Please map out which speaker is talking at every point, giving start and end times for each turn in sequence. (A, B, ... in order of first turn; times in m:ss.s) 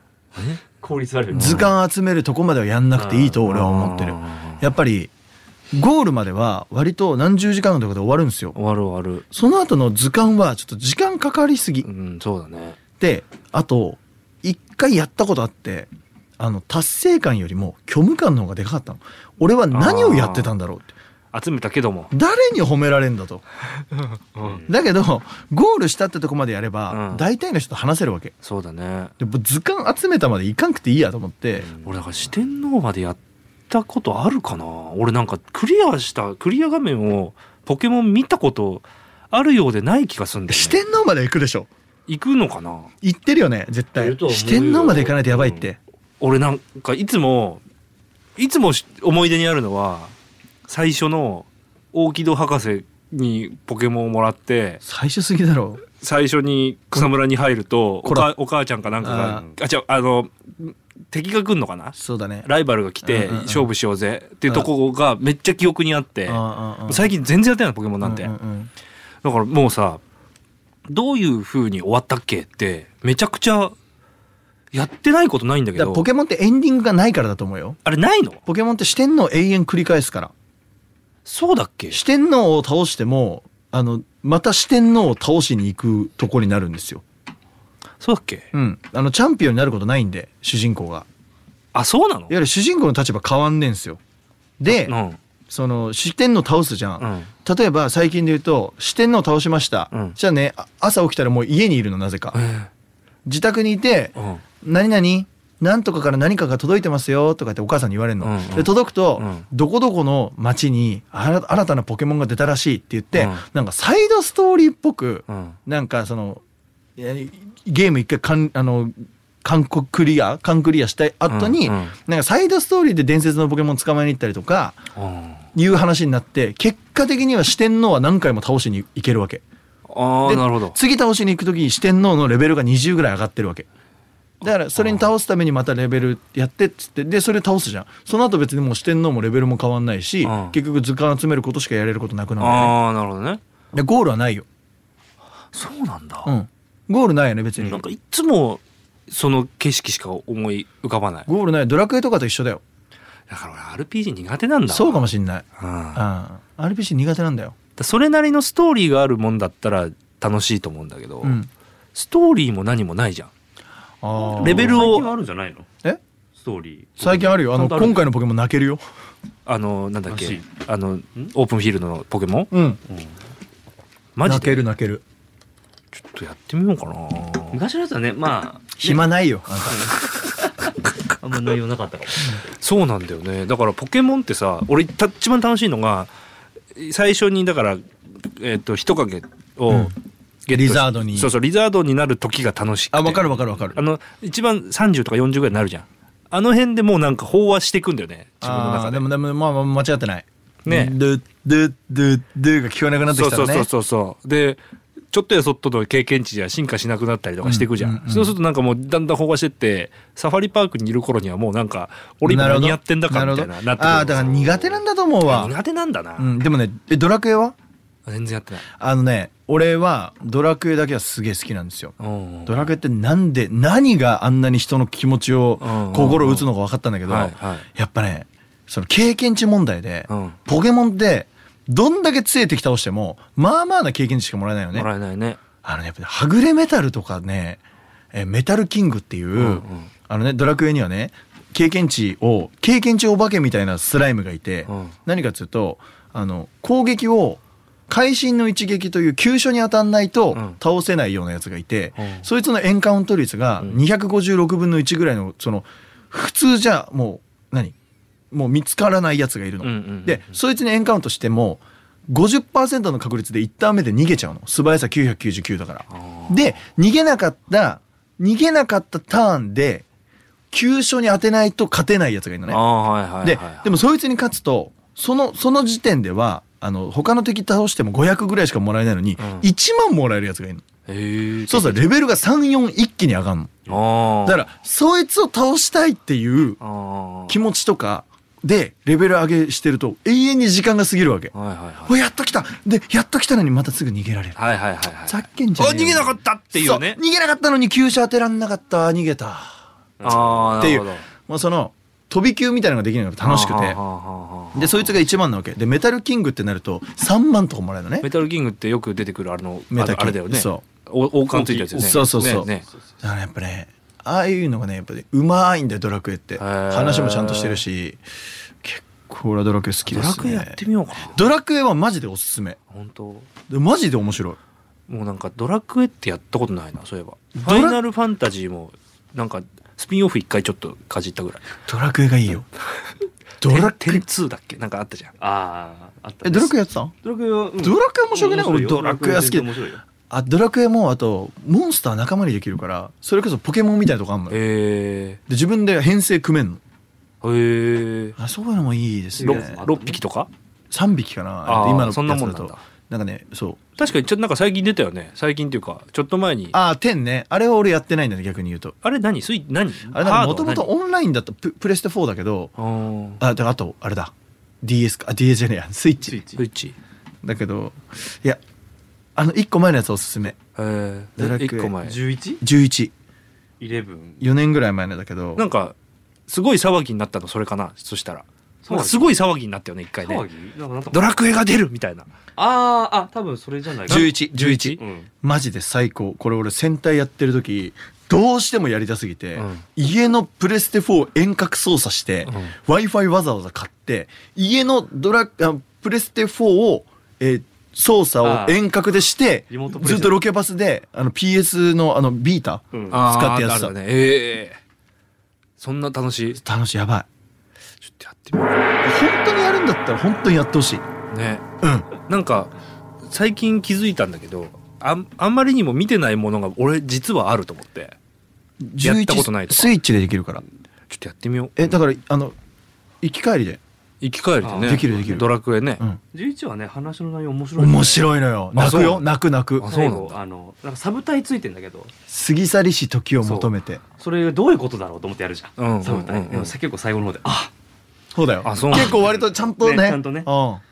0:00.7-0:01.7 A
0:01.3-0:05.1 B
0:01.3-0:01.7 C
0:02.9-0:03.5 A
0:03.4-0:04.6 C
0:05.7-0:08.6 B
0:08.5-0:09.2 C
0:09.3-0:11.9 B
0:11.8-0:12.8 C
0:13.0-0:20.9 B
0:19.7-0:20.5 C
0:21.3-0:22.1 C
0:22.1-0:23.4 B
0:24.3-0:24.7 C
0:24.6-0:28.3 B
0:26.9-0:27.3 C
0:28.4-0:29.1 C
0:29.2-0:31.7 B
0:31.6-0:40.8 C
0:40.5-0:41.7 B
0:42.1-0:42.9 C
0:43.0-0:45.8 B
0:44.0-0:47.6 C
0:48.4-0:50.1 C
0:50.7-0:54.8 C
0:54.8-0:55.8 B
0:55.9-1:08.3 C
0:58.0-0:58.3 B
0:59.0-0:59.4 B
1:01.9-1:02.5 B
1:03.0-1:03.7 B
1:06.3-1:07.1 B
1:08.0-1:08.7 B
1:09.2-1:10.0 C
1:10.9-1:13.7 C
1:14.7-1:16.1 C
1:15.7-1:17.8 B
1:17.8-1:18.4 C
1:18.4-1:20.3 B
1:21.2-1:22.0 C
1:21.9-1:27.0 B
1:28.0-1:28.5 C
1:28.5-1:31.0 B
1:31.7-1:32.4 C
1:32.3-1:34.0 B
1:34.6-1:35.0 B
1:34.7-1:35.2 C
1:35.5-1:42.4 B
1:37.0-1:37.3 C
1:39.9-1:40.2 C
1:42.3-1:42.7 C
1:43.2-1:56.4 B
1:44.2-1:44.4 C
1:48.2-1:49.4 C
1:53.1-1:53.4 C
1:55.3-1:55.6 C
1:57.0-2:04.8 B
2:01.3-2:01.9 C
2:04.9-2:05.5 C
2:05.5-2:09.4 B
2:09.9-2:10.8 C
2:10.2-2:13.6 B
2:14.4-2:22.8 B
2:14.4-2:15.1 C
2:20.2-2:20.6 C
2:22.4-2:23.4 C
2:23.7-2:24.4 B
2:25.5-2:26.3 C
2:26.2-2:27.8 B
2:27.6-2:31.3 C
2:31.2-2:32.6 B
2:33.3-2:36.0 C
2:34.7-2:37.5 B
2:37.8-2:41.4 C
2:41.2-2:41.5 B
2:41.9-2:43.3 C
2:44.0-2:45.0 B
2:44.1-2:45.7 A
2:44.4-2:45.1 C
2:46.4-2:48.0 A
2:47.0-2:48.8 B
2:49.4-2:52.5 C
2:50.1-2:50.4 A
2:52.5-2:52.8 B
2:52.9-2:53.2 A
2:54.2-2:54.7 C
2:54.2-2:55.0 B
2:55.9-2:57.6 C
2:57.5-3:02.4 A
2:58.8-2:59.9 B
3:02.4-3:06.1 C
3:06.7-3:19.0 C
3:09.7-3:09.9 B
3:10.5-3:11.3 B
3:12.9-3:13.8 B
3:18.4-3:23.7 B
3:20.6-3:21.0 C
3:23.1-3:36.4 C
3:27.4-3:28.4 B
3:32.2-3:35.5 B
3:36.2-3:37.5 B
3:38.0-3:38.7 C
3:38.8-3:41.9 B
3:42.0-3:42.8 C
3:42.5-3:54.9 B
3:45.6-3:46.5 C
3:47.0-3:47.7 C
3:50.1-3:50.4 C
3:54.7-3:55.4 C
3:55.6-3:57.6 B
3:58.1-4:17.7 B
3:59.4-3:59.9 C
4:04.7-4:04.9 C
4:10.3-4:10.6 C
4:12.0-4:12.3 C
4:18.3-4:29.8 B
4:19.6-4:20.4 C
4:25.9-4:26.6 C
4:30.5-4:32.6 B
4:32.5-4:33.8 C
4:33.2-4:40.6 B
4:39.2-4:39.5 C
4:40.9-4:41.9 C
4:41.5-4:46.6 B
4:43.7-4:44.5 C
4:46.6-4:47.4 C
4:47.3-4:51.3 B
4:51.3-4:52.0 C
4:51.8-4:54.4 B
4:54.4-4:57.0 C
4:55.0-4:59.6 B
5:00.0-5:00.6 A
5:00.0-5:01.0 C
5:00.6-5:03.8 B
5:03.2-5:05.0 C
5:04.5-5:08.1 B
5:08.0-5:12.6 C
5:09.7-5:10.6 B
5:11.3-5:12.6 A
5:11.7-5:12.5 B
5:13.0-5:18.0 B
5:16.4-5:17.6 C
5:18.6-5:22.6 B
5:19.8-5:21.3 C
5:22.7-5:23.3 C
5:23.5-5:24.4 B
5:24.9-5:31.6 C
5:27.3-5:27.8 B
5:31.6-5:32.5 B
5:33.4-5:34.0 B
5:33.4-5:35.1 C
5:35.2-5:39.8 A
5:36.2-5:36.9 B
5:37.6-5:39.5 B
5:40.0-5:44.4 B
5:44.3-5:45.2 C
5:45.3-5:46.6 B
5:47.2-5:48.2 C
5:48.2-5:49.6 B
5:49.1-5:50.0 A
5:49.2-5:50.3 C
5:50.7-5:53.6 B
5:51.4-5:52.6 C
5:53.8-5:56.6 C
5:56.5-5:58.7 B
5:58.8-6:00.7 C
5:59.9-6:02.5 B
6:02.6-6:03.2 C
6:03.2-6:06.2 B
6:06.0-6:06.4 A
6:06.4-6:06.8 C
6:07.2-6:08.4 B
6:09.2-6:10.4 B
6:10.5-6:12.0 C
6:11.2-6:11.8 B
6:11.8-6:12.4 A
6:12.4-6:12.9 B
6:13.6-6:14.3 A
6:14.2-6:15.4 B
6:15.4-6:15.8 C
6:16.3-6:20.3 C
6:18.6-6:19.2 A
6:20.0-6:21.2 A
6:20.9-6:22.1 C
6:22.4-6:24.2 A
6:23.9-6:24.8 C
6:23.9-6:43.7 B
6:24.8-6:25.1 A
6:29.4-6:29.6 C
6:32.2-6:32.5 C
6:38.2-6:38.6 A
6:39.5-6:40.2 A
6:42.7-6:43.0 A
6:42.9-6:44.6 C
6:45.6-6:46.4 C
6:46.3-6:47.1 B
6:47.8-6:48.7 C
6:48.8-6:50.8 B
6:51.1-6:51.4 C
6:51.6-6:51.9 B
6:52.0-6:58.0 C
6:58.6-7:00.4 B
6:58.8-6:59.8 C
7:00.9-7:01.7 C
7:01.6-7:02.4 B
7:03.0-7:03.6 B
7:04.0-7:05.8 C
7:04.4-7:05.0 A
7:04.6-7:06.0 B
7:06.1-7:08.1 A
7:07.6-7:09.7 B
7:08.5-7:09.1 C
7:09.6-7:10.2 C
7:09.6-7:11.9 A
7:12.1-7:13.8 B
7:13.2-7:17.5 A
7:15.6-7:16.5 C
7:18.1-7:20.6 B
7:18.4-7:19.2 C
7:19.5-7:20.3 A